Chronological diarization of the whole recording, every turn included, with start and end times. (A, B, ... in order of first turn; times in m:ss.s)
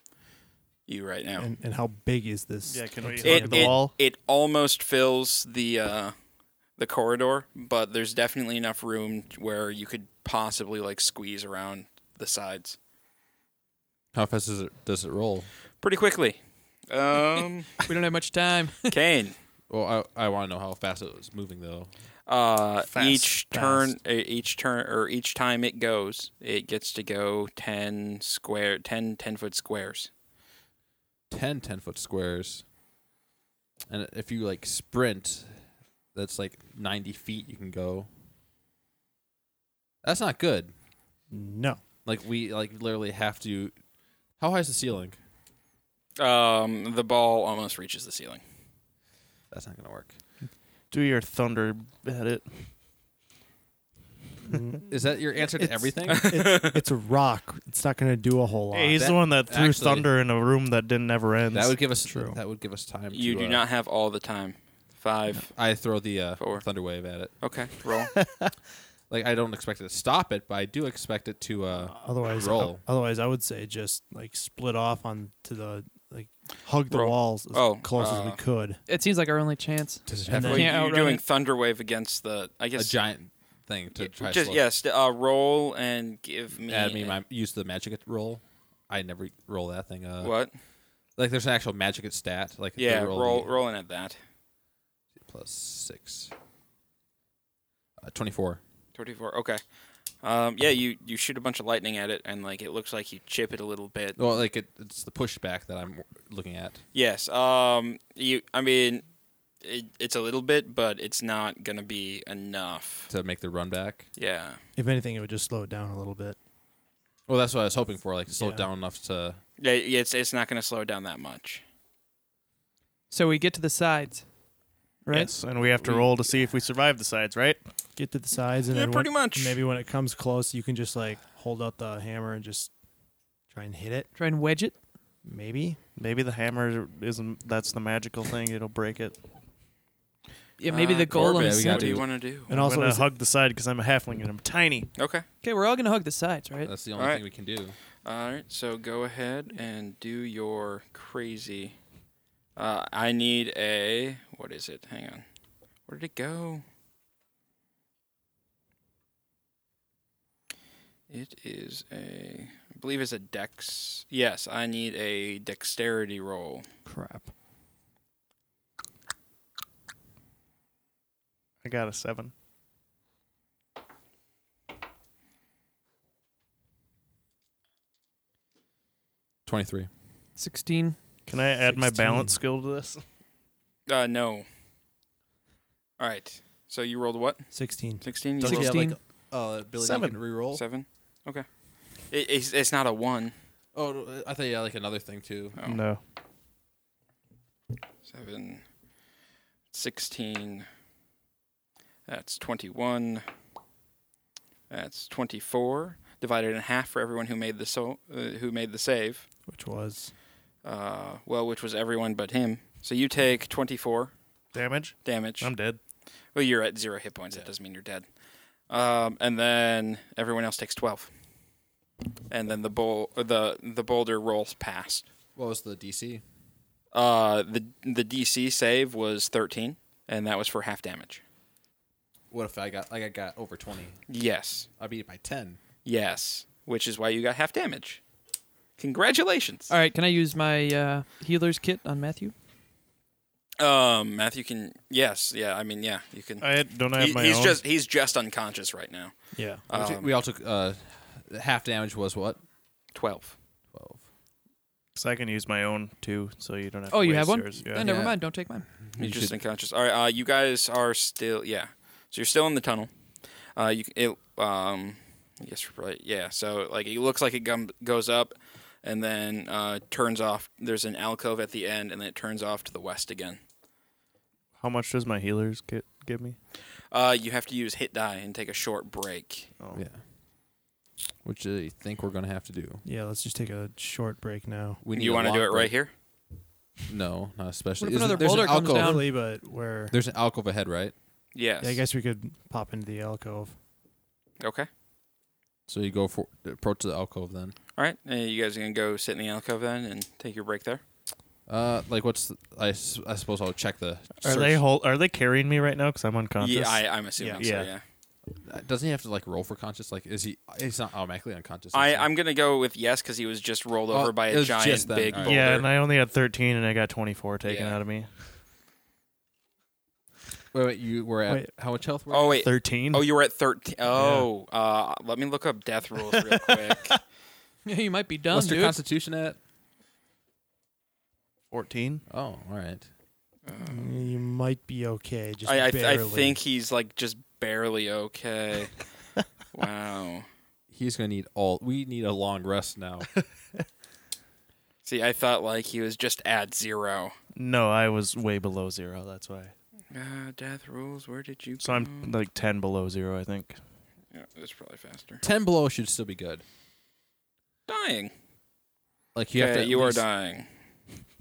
0:00.9-0:01.5 A
0:01.4-0:03.8 B
0:02.7-0:03.9 C
0:03.2-0:06.1 A
0:06.8-0:12.8 A
0:14.1-0:15.5 D
0:15.8-0:16.4 A
0:16.9-0:17.7 A
0:17.9-0:19.0 E
0:18.9-0:19.4 A
0:19.7-0:21.9 D
0:22.3-0:30.1 A
0:22.9-0:23.9 B
0:31.3-0:32.6 D
0:33.9-0:35.6 D
0:36.1-0:38.1 D
0:40.0-0:40.7 D
0:41.3-0:41.8 B
0:42.0-0:43.8 D
0:44.4-0:45.2 D
0:46.2-0:48.4 A
0:49.5-0:50.1 D
0:50.9-0:52.7 C
0:54.4-0:59.0 B
0:54.9-0:56.4 D
0:56.1-0:56.8 A
0:58.7-1:01.8 C
0:58.9-1:00.1 D
1:01.5-1:03.6 D
1:02.0-1:02.4 B
1:03.1-1:05.5 A
1:05.4-1:07.5 D
1:06.4-1:08.1 A
1:09.1-1:12.8 D
1:11.7-1:18.8 B
1:16.9-1:18.4 A
1:18.9-1:21.2 E
1:20.0-1:20.7 D
1:20.1-1:20.7 B
1:20.4-1:23.0 A
1:22.7-1:24.6 D
1:24.0-1:27.2 A
1:26.5-1:30.3 D
1:30.2-1:30.5 A
1:31.2-1:33.5 D
1:32.8-1:34.2 A
1:35.2-1:36.3 D
1:38.0-1:38.6 D
1:38.9-1:39.6 A
1:40.2-1:44.2 A
1:44.2-1:46.8 D
1:46.9-1:49.0 A
1:49.6-1:53.1 A
1:53.1-1:54.1 D
1:54.2-1:54.6 A
1:54.8-1:56.4 B
1:57.3-1:59.4 D
1:58.4-1:58.6 B
1:59.6-2:01.6 A
2:03.1-2:04.2 E
2:05.0-2:05.3 E
2:05.1-2:07.6 C
2:08.0-2:12.7 B
2:08.7-2:09.6 A
2:13.5-2:14.1 B
2:14.2-2:14.7 E
2:15.2-2:15.8 B
2:16.0-2:19.2 C
2:20.6-2:22.0 E
2:20.7-2:22.5 A
2:21.1-2:22.1 D
2:22.5-2:23.1 B
2:22.5-2:24.9 C
2:25.0-2:25.2 A
2:25.4-2:26.7 E
2:26.6-2:27.7 D
2:27.0-2:27.2 A
2:28.0-2:31.8 A
2:32.6-2:35.2 A
2:35.9-2:36.6 A
2:41.1-2:46.6 A
2:46.8-2:47.3 B
2:51.6-2:52.3 C
2:59.4-2:59.9 D
3:00.4-3:01.0 E
3:01.3-3:03.0 C
3:01.6-3:02.4 B
3:03.9-3:04.5 A
3:06.0-3:07.5 A
3:07.5-3:08.0 B
3:08.0-3:08.8 A
3:08.4-3:10.6 D
3:08.4-3:09.0 E
3:09.8-3:10.2 C
3:10.5-3:11.4 A
3:12.1-3:13.3 A
3:13.7-3:15.6 D
3:15.6-3:16.0 C
3:18.0-3:18.6 A
3:19.7-3:20.7 A
3:22.1-3:23.2 A
3:24.7-3:29.3 A
3:29.5-3:30.1 B
3:30.6-3:34.1 A
3:34.5-3:35.8 C
3:35.0-3:35.5 A
3:36.3-3:38.0 A
3:38.7-3:41.1 A
3:42.3-3:45.1 A
3:45.4-3:46.2 D
3:46.9-3:51.2 A
3:52.3-3:54.0 D
3:54.1-3:54.7 A
3:54.8-3:55.6 D
3:55.8-3:58.0 A
3:58.8-3:59.7 A
3:59.7-4:02.3 E
4:03.6-4:09.1 A
4:06.4-4:07.6 C
4:09.3-4:09.6 B
4:09.7-4:10.1 A
4:09.7-4:12.4 D
4:12.9-4:13.4 A
4:13.7-4:14.0 D
4:14.9-4:17.9 C
4:16.9-4:18.7 E
4:17.8-4:19.3 D
4:19.0-4:22.9 A
4:23.6-4:33.4 A
4:34.6-4:36.4 C
4:36.9-4:39.5 A
4:39.7-4:40.0 D
4:41.2-4:42.8 D
4:42.8-4:44.8 B
4:44.8-4:45.8 D
4:44.9-4:45.9 A
4:46.9-4:49.2 D
4:47.8-4:49.1 E
4:48.1-4:50.0 B
4:49.9-4:50.9 D
4:51.3-4:51.8 A
4:51.6-4:53.6 B
4:54.4-4:54.7 A
4:55.7-4:57.6 D
4:57.8-5:00.8 A
5:01.5-5:04.6 D
5:04.2-5:07.7 C
5:06.4-5:07.8 A
5:07.2-5:07.5 B
5:08.3-5:12.1 D
5:11.7-5:15.7 A
5:13.9-5:15.6 D
5:15.2-5:18.1 C
5:17.4-5:17.8 A
5:20.5-5:22.4 D
5:21.2-5:21.5 B
5:22.1-5:27.0 A
5:22.4-5:23.0 C
5:23.9-5:24.3 C
5:27.6-5:28.8 E
5:28.3-5:29.4 D
5:31.5-5:32.0 C
5:32.1-5:32.9 D
5:33.4-5:34.0 A
5:33.6-5:36.4 B
5:35.4-5:38.8 A
5:39.5-5:40.2 A
5:40.7-5:43.1 D
5:44.8-5:47.1 A
5:47.3-5:49.5 C
5:49.9-5:52.1 A
5:51.6-5:53.6 C
5:54.1-5:55.2 A
5:55.2-5:56.4 D
5:57.7-5:58.1 A
5:59.1-6:00.0 D
5:59.3-6:00.5 A